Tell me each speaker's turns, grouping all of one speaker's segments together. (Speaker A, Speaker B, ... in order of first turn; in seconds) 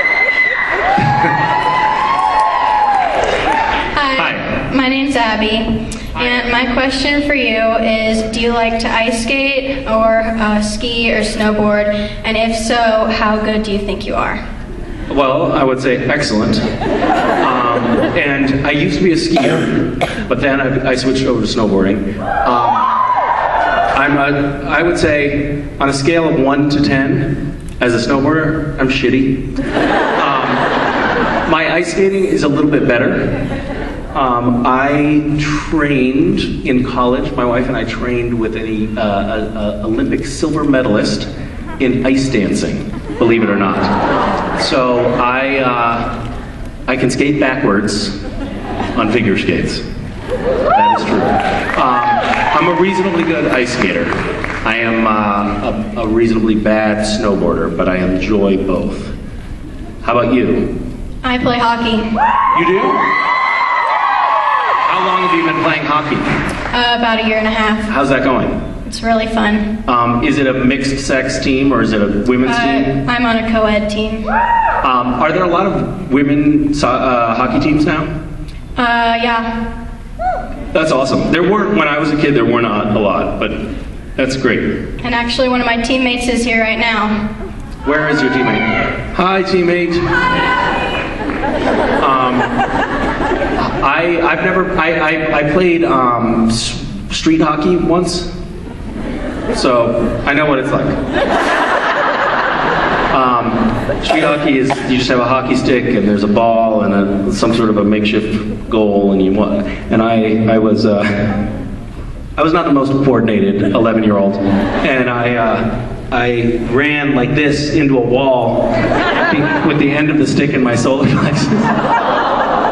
Speaker A: 1.0-1.3, 4.2-4.6, 15.1-16.6, 17.4-22.9, 23.9-29.4, 30.2-30.6, 31.5-33.4, 34.1-41.3, 41.8-43.9, 44.6-46.2, 46.9-48.2, 49.0-49.8, 50.7-59.1, 60.0-60.8, 62.5-63.0, 64.9-66.3, 67.9-68.6, 69.8-73.0, 74.8-78.1, 80.7-84.8, 87.8-90.0, 92.0-92.6, 93.6-98.3, 99.5-101.0, 103.1-111.4, 112.4-118.7, 119.2-121.8
Speaker B: 4.0-14.4, 61.2-62.1, 66.7-67.9, 68.9-69.8, 72.4-74.3, 78.8-79.6, 85.0-87.2